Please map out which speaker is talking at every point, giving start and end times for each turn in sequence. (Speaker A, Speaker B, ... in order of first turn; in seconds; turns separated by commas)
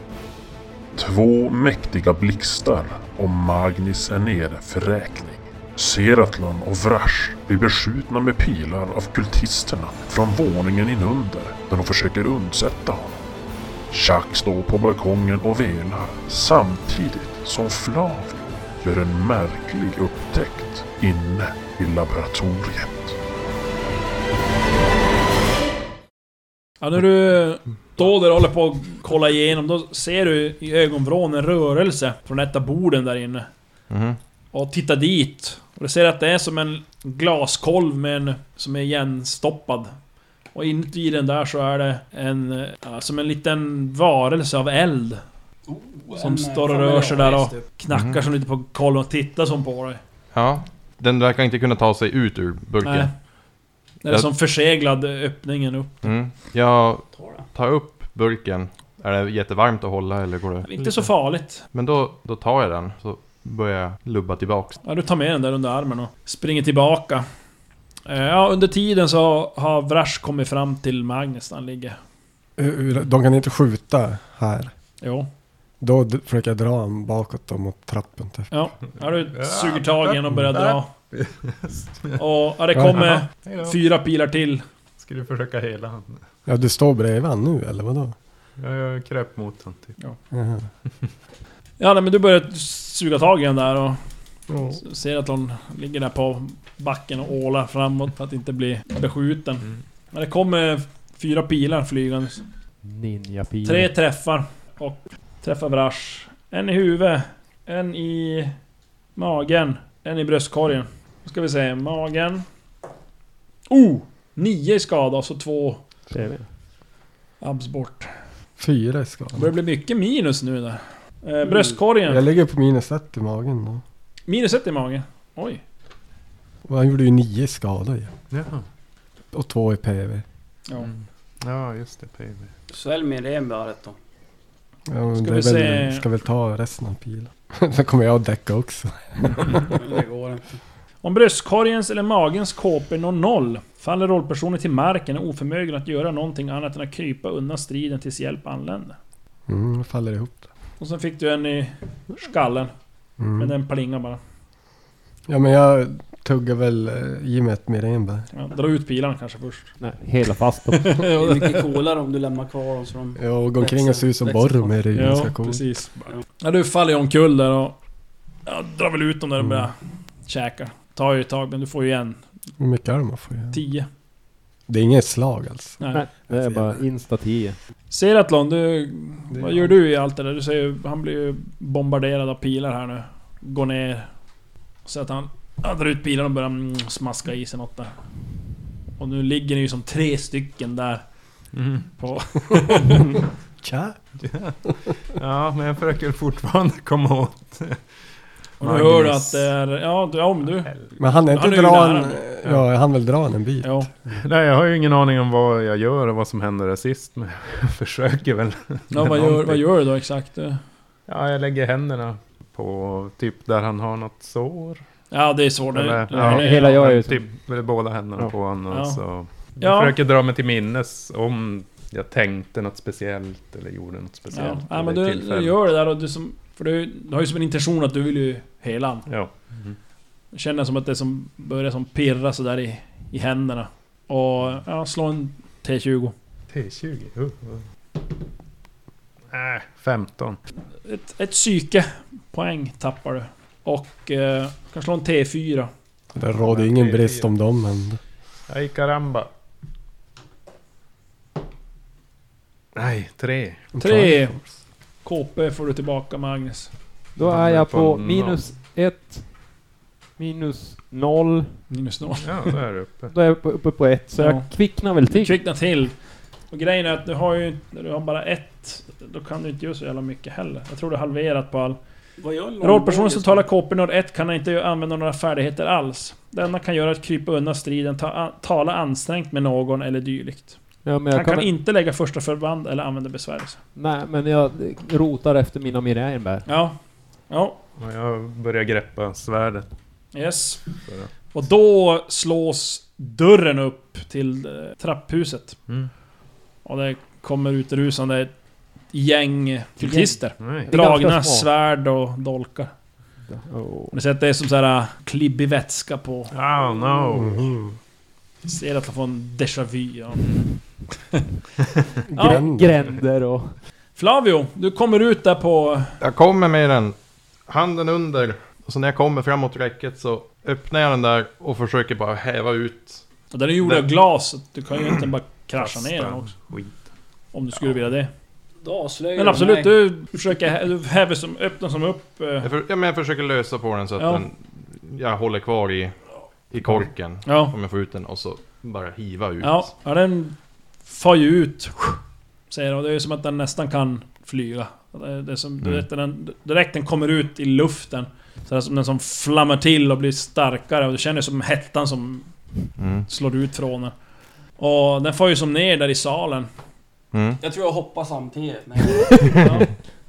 Speaker A: 0.9-13.2, Speaker A: 13.9-23.2, Speaker B: 26.8-33.5, Speaker C: 33.9-34.2, Speaker B: 34.5-39.9, Speaker B: 40.5-45.2, Speaker D: 45.7-47.6, Speaker B: 46.1-50.0, Speaker C: 47.9-48.2, Speaker C: 50.3-53.1, Speaker B: 52.8-53.1, Speaker B: 54.0-56.1, Speaker C: 56.0-64.8, Speaker D: 57.1-57.5, Speaker B: 60.6-61.6, Speaker B: 64.8-67.2, Speaker B: 68.1-72.0, Speaker E: 72.6-74.7, Speaker B: 75.0-75.3, Speaker E: 75.8-78.5, Speaker B: 78.5-80.9, Speaker F: 79.3-82.2, Speaker B: 82.2-84.6, Speaker E: 82.8-83.0, Speaker F: 82.9-83.8, Speaker F: 85.0-86.2, Speaker E: 86.5-88.2, Speaker F: 88.6-89.9, Speaker E: 90.3-90.7, Speaker B: 91.8-94.0, Speaker E: 94.5-94.8, Speaker B: 94.7-102.4, Speaker G: 102.8-103.9, Speaker B: 103.6-108.5, Speaker B: 109.2-112.4, Speaker B: 113.7-115.8, Speaker G: 116.1-116.5, Speaker B: 117.4-118.1, Speaker E: 118.6-119.5, Speaker B: 119.4-122.2, Speaker D: 121.4-121.8, Speaker E: 122.1-123.8, Speaker B: 124.3-125.6, Speaker E: 126.7-128.1, Speaker F: 128.3-128.7, Speaker E: 129.3-130.2, Speaker F: 130.8-132.5, Speaker D: 132.7-134.0, Speaker E: 134.9-139.6, Speaker B: 135.2-136.0, Speaker D: 139.7-140.6, Speaker B: 141.0-149.0, Speaker E: 149.5-150.5, Speaker B: 150.8-152.7, Speaker E: 153.2-153.5, Speaker B: 153.4-154.2, Speaker E: 155.3-158.3, Speaker B: 158.3-159.8, Speaker G: 159.8-161.0, Speaker B: 160.7-161.6, Speaker D: 161.0-165.2, Speaker E: 163.2-165.7, Speaker B: 164.9-167.8, Speaker B: 168.5-169.8, Speaker E: 169.4-169.7, Speaker B: 170.3-172.2, Speaker E: 172.6-173.6, Speaker B: 173.5-173.9, Speaker E: 174.7-176.7, Speaker B: 175.8-176.1, Speaker G: 175.9-177.6, Speaker B: 177.9-184.1, Speaker E: 179.3-179.7, Speaker B: 184.8-187.9, Speaker B: 189.0-191.0, Speaker F: 191.5-191.9, Speaker B: 192.0-193.2, Speaker E: 193.6-194.0, Speaker F: 194.2-197.8, Speaker B: 198.6-200.8, Speaker F: 198.6-199.3, Speaker E: 201.0-204.2, Speaker B: 201.3-202.2, Speaker B: 203.6-203.9, Speaker F: 204.2-209.7, Speaker B: 208.9-210.6, Speaker F: 211.1-214.8, Speaker B: 215.1-216.8, Speaker F: 215.7-225.6, Speaker G: 216.1-217.3, Speaker B: 218.7-219.0, Speaker B: 219.6-220.0, Speaker B: 224.3-229.1, Speaker F: 229.1-229.8, Speaker B: 230.3-236.1, Speaker F: 236.5-237.7, Speaker F: 239.3-240.4, Speaker B: 240.8-245.7, Speaker E: 246.2-248.0, Speaker F: 246.4-247.3, Speaker F: 248.5-249.3, Speaker F: 252.8-253.6, Speaker E: 253.7-254.5, Speaker B: 253.8-254.4, Speaker B: 255.0-256.7, Speaker G: 257.1-259.4, Speaker F: 257.2-258.5, Speaker G: 260.2-261.6, Speaker B: 261.7-262.5, Speaker F: 262.2-263.1, Speaker G: 263.1-265.4, Speaker B: 264.2-264.5, Speaker B: 265.1-265.9, Speaker B: 266.5-271.8, Speaker D: 272.2-273.5, Speaker B: 272.6-280.6, Speaker G: 280.9-281.5, Speaker B: 281.1-283.6, Speaker G: 283.8-286.4, Speaker B: 286.5-286.8, Speaker B: 287.3-287.6, Speaker F: 287.8-289.7, Speaker B: 290.1-290.6, Speaker F: 290.9-291.1, Speaker B: 291.3-295.6, Speaker B: 296.6-298.3, Speaker B: 298.9-302.7, Speaker G: 299.8-301.5, Speaker F: 300.4-300.7, Speaker G: 303.3-304.0, Speaker B: 303.9-306.3, Speaker F: 306.3-307.5, Speaker E: 307.2-307.8, Speaker B: 308.4-310.4, Speaker E: 312.1-312.7, Speaker B: 312.2-312.4, Speaker G: 312.2-313.6, Speaker B: 314.0-315.9, Speaker C: 316.0-323.1, Speaker B: 323.3-326.3, Speaker F: 325.6-326.8, Speaker B: 327.3-328.1, Speaker D: 328.6-329.8, Speaker B: 329.2-332.5, Speaker C: 332.4-335.9, Speaker B: 334.0-334.2, Speaker C: 336.5-339.7, Speaker B: 337.2-337.6, Speaker B: 339.4-342.0, Speaker B: 342.5-352.3, Speaker C: 352.8-353.1, Speaker B: 353.1-353.9, Speaker B: 354.6-356.5, Speaker C: 357.1-357.4, Speaker D: 357.4-359.4, Speaker B: 359.4-359.8